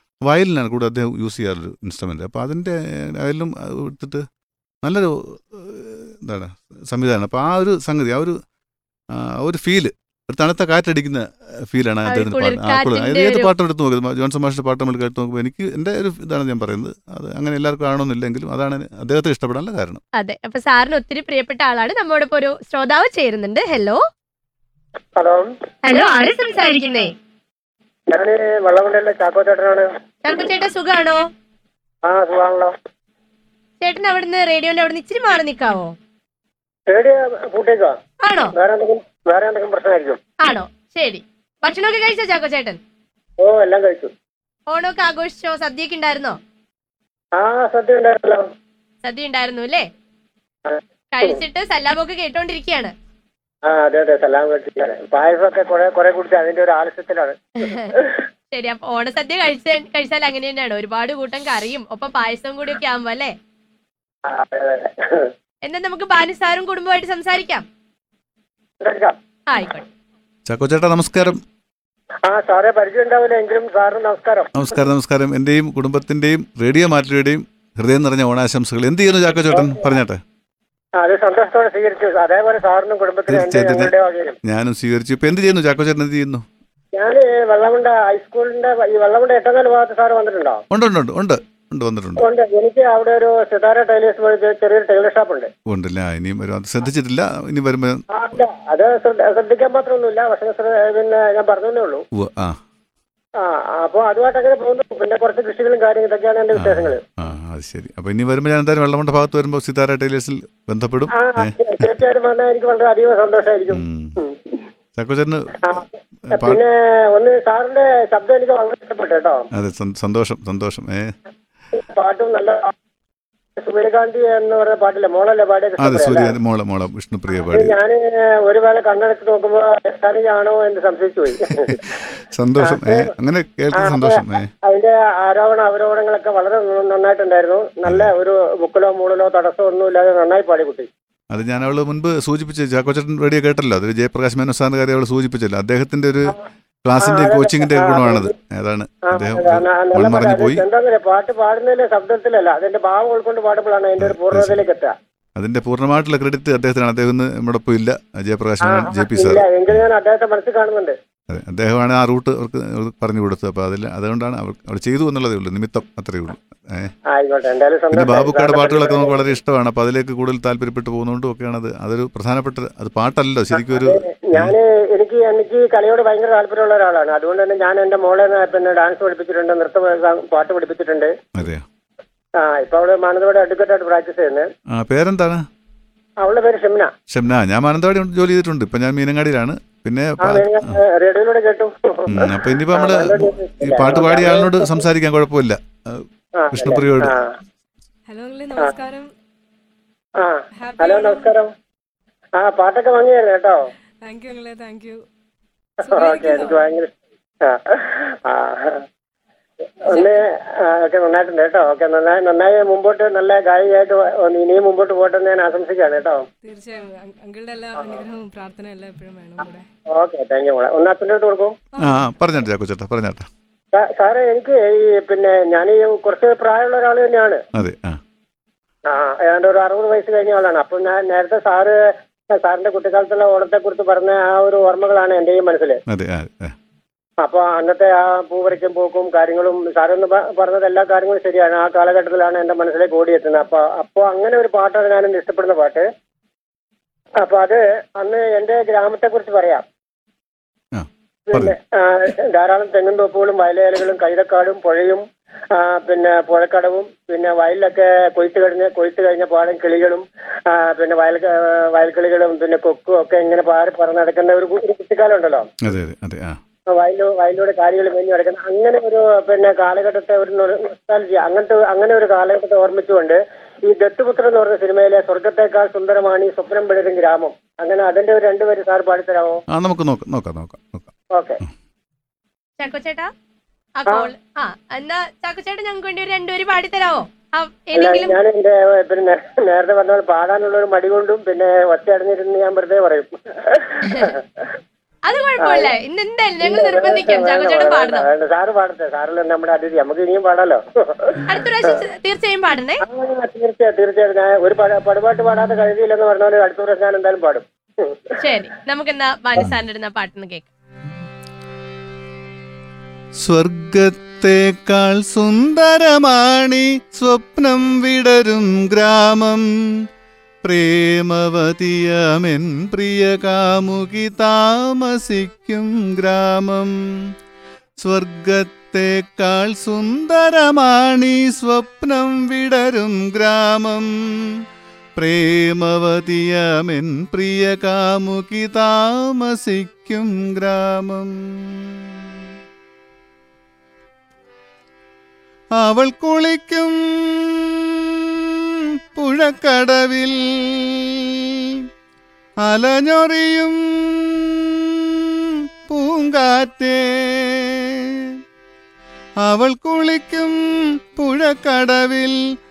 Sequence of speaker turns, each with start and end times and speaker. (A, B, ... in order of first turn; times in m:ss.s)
0:00.2-0:04.2 A
0:04.8-0:08.4 A
0:09.1-0:20.0 A
0:12.1-0:13.5 B
0:20.2-0:24.0 B
0:25.2-0:25.5 C
0:25.8-0:27.1 B
0:28.1-0:29.9 C
0:30.2-0:31.2 B
0:32.0-0:32.7 C
0:33.8-0:35.9 B
0:36.9-0:38.0 C
0:38.2-0:38.5 B
0:38.6-0:40.2 C
0:40.4-0:42.8 B
0:43.4-0:44.1 C
0:44.7-0:46.4 B
0:47.3-0:48.4 C
0:49.0-0:49.8 B
0:50.7-0:51.4 C
0:51.1-0:52.9 B
0:53.7-0:58.1 C
0:57.6-0:57.9 B
0:58.5-1:03.3 B
1:04.2-1:05.3 C
1:05.6-1:07.6 B
1:08.8-1:09.2 C
1:09.5-1:09.8 B
1:10.5-1:11.4 A
1:12.3-1:14.5 C
1:14.6-1:20.2 A
1:19.5-1:19.8 C
1:21.0-1:24.4 C
1:23.3-1:23.9 A
1:24.4-1:26.4 A
1:26.9-1:30.6 C
1:30.7-1:32.2 A
1:32.2-1:35.5 C
1:35.7-1:38.0 A
1:38.1-1:42.0 C
1:42.1-1:42.6 A
1:43.4-1:47.0 C
1:46.5-1:51.9 A
1:51.1-1:54.4 C
1:53.7-1:54.2 A
1:55.0-1:56.6 A
1:55.6-1:59.4 C
1:59.5-2:01.1 A
2:01.7-2:02.7 C
2:03.6-2:06.3 C
2:05.8-2:07.8 A
2:07.5-2:11.8 C
2:11.6-2:14.5 A
2:12.6-2:13.1 C
2:13.7-2:20.9 C
2:17.8-2:18.1 A
2:21.3-2:30.6 A
2:27.0-2:28.3 C
2:29.1-2:34.9 C
2:34.0-2:34.6 A
2:35.4-2:39.8 A
2:38.6-2:41.0 C
2:41.3-2:46.9 A
2:47.1-2:49.1 C
2:47.9-2:54.5 A
2:53.5-3:01.1 C
3:01.3-3:01.6 A
3:02.4-3:04.5 C
3:04.7-3:05.4 A
3:06.2-3:06.9 C
3:07.1-3:10.8 A
3:10.2-3:14.7 C
3:12.1-3:17.2 A
3:16.4-3:17.3 C
3:18.1-3:19.1 D
3:20.2-3:21.5 C
3:20.6-3:21.3 D
3:22.4-3:23.6 C
3:24.0-3:25.0 D
3:25.8-3:26.6 D
3:25.9-3:28.8 C
3:29.9-3:36.3 C
3:29.9-3:30.2 D
3:36.4-3:39.6 D
3:39.9-3:41.5 C
3:41.8-3:43.3 A
3:43.7-3:47.4 C
3:47.5-3:48.0 A
3:48.9-3:51.8 C
3:52.3-3:55.8 C
3:55.9-3:56.5 A
3:57.2-4:05.9 C
4:07.2-4:09.6 C
4:10.7-4:11.6 A
4:11.3-4:25.5 C
4:25.6-4:26.4 A
4:26.7-4:39.4 C
4:39.5-4:40.9 A
4:41.1-4:41.4 C
4:42.6-4:43.1 B
4:43.8-4:48.1 B
4:47.7-4:54.2 C
4:53.8-4:54.1 B
4:55.0-4:58.0 B
4:55.4-4:55.7 C
4:56.4-5:01.7 C
5:01.3-5:02.8 B
5:02.8-5:08.0 C
5:08.2-5:10.5 B
5:13.2-5:19.4 A
5:20.4-5:27.1 A
5:27.8-5:34.4 A
5:35.0-5:42.3 A
5:45.6-5:51.6 A
5:52.4-5:58.2 A
5:59.2-6:02.2 A